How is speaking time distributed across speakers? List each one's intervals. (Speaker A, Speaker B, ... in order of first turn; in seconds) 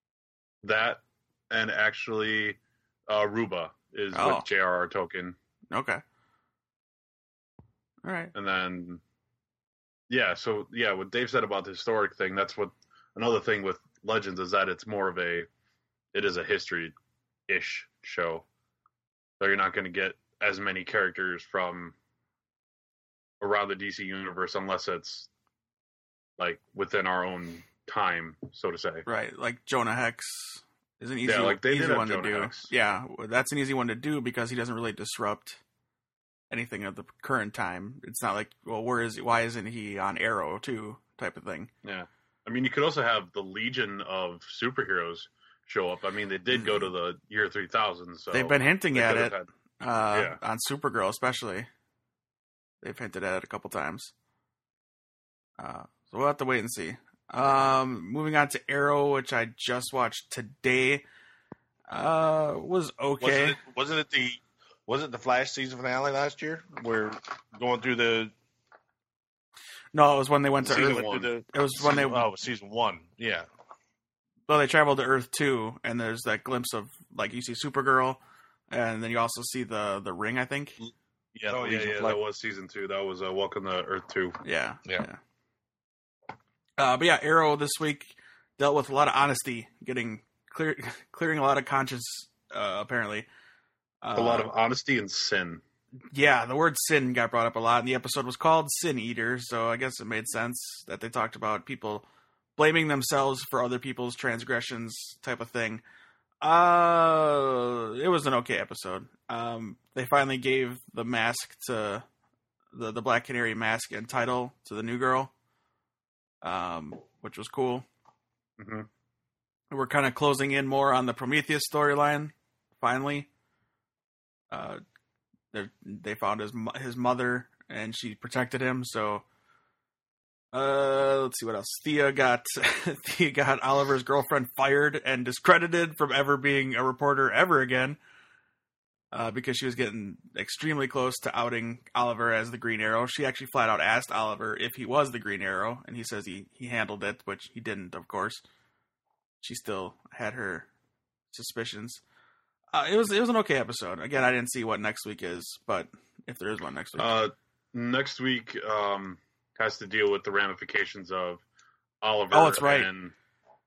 Speaker A: 0.6-5.4, 8.3-9.0, 10.1-15.5, 16.1-16.9, 17.5-18.4, 19.4-21.9, 23.4-25.3, 26.4-29.1, 31.2-32.7, 41.8-49.5, 50.1-50.4, 70.6-71.3, 81.5-84.4, 94.1-95.6, 118.6-118.9, 157.0-161.4, 162.0-163.1
Speaker B: 4.1-4.5, 5.7-6.0, 8.0-8.3, 29.1-35.6, 36.5-41.7, 46.5-46.9, 48.3-51.7, 52.8-54.1, 55.6-61.0, 61.9-63.6, 69.9-72.2, 74.5-78.2, 78.7-80.8, 84.4-85.2, 86.8-93.3, 94.0-94.5, 96.1-102.0, 102.6-105.8, 106.4-112.0, 112.7-115.3, 116.4-117.9, 119.7-123.3, 124.5-124.8, 125.5-129.2, 130.5-138.0, 139.1-148.4, 149.4-150.7, 151.3-152.0, 152.7-157.1, 162.3-162.9
Speaker C: 63.2-68.3, 70.7-73.5, 81.3-82.2